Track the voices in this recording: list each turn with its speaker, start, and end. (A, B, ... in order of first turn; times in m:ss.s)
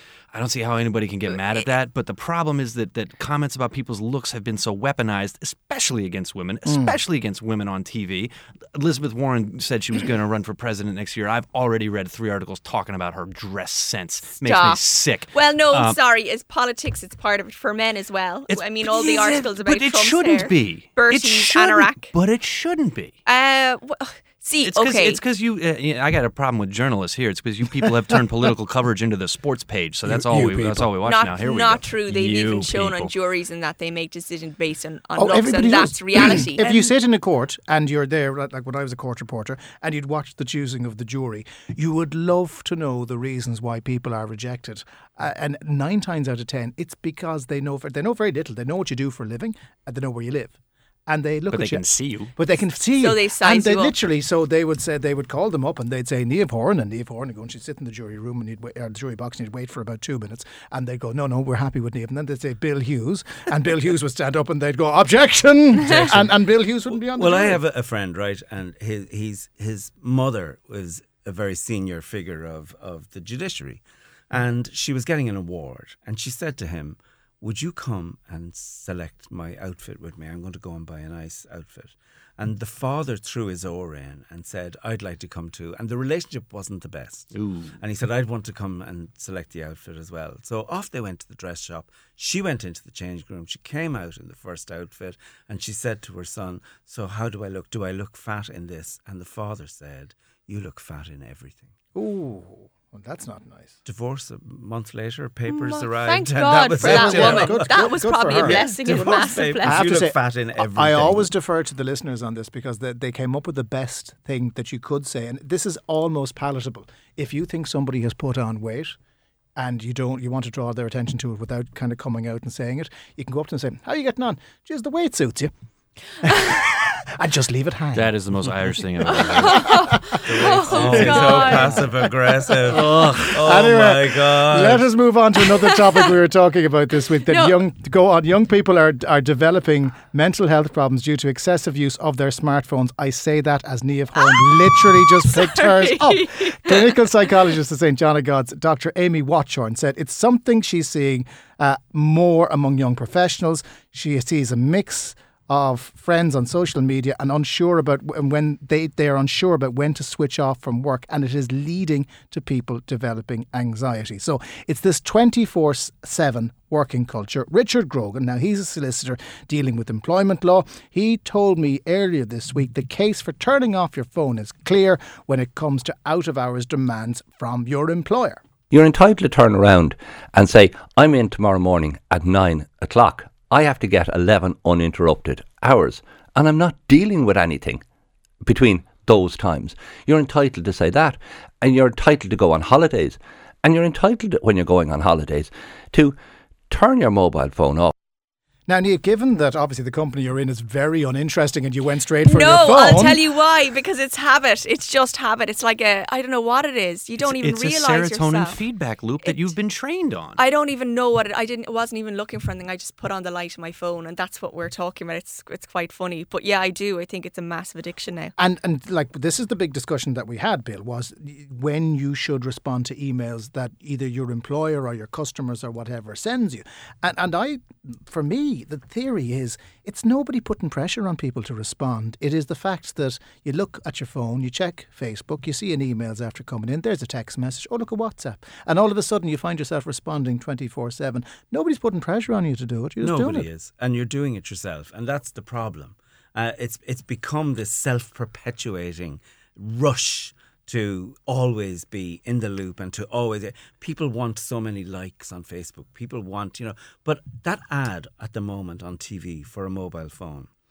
0:00.3-0:16.0 A
0:06.6-0:07.0 B
0:14.4-0:22.1 C
0:18.5-0:23.2 A
0:23.2-0:25.2 C
0:24.6-0:33.1 A
0:30.0-0:30.9 B
0:31.0-0:36.8 C
0:35.2-0:50.6 B
0:51.1-1:07.6 B
0:51.5-0:52.3 A
0:53.0-0:53.9 C
1:07.0-1:41.7 D
1:27.3-1:27.7 A
1:41.9-1:43.8 B
1:43.8-1:51.3 D
1:45.5-1:49.8 C
1:46.8-1:59.0 B
1:59.6-2:05.5 B
2:06.2-2:08.1 B
2:07.9-2:11.8 A
2:09.1-2:11.8 C
2:09.1-2:10.0 B
2:10.3-2:14.9 D
2:10.7-2:11.8 B
2:12.7-2:13.4 A
2:12.7-2:58.4 B
2:15.6-2:16.0 C
2:17.3-2:17.6 C
2:24.2-2:27.1 C
2:58.7-3:07.8 E
3:08.4-3:16.2 E
3:16.7-3:17.9 E
3:18.7-3:23.2 B
3:22.2-3:28.6 C
3:27.2-3:30.4 A
3:29.2-3:29.5 C
3:30.4-3:38.3 C
3:38.4-4:03.5 B
4:03.0-4:20.5 D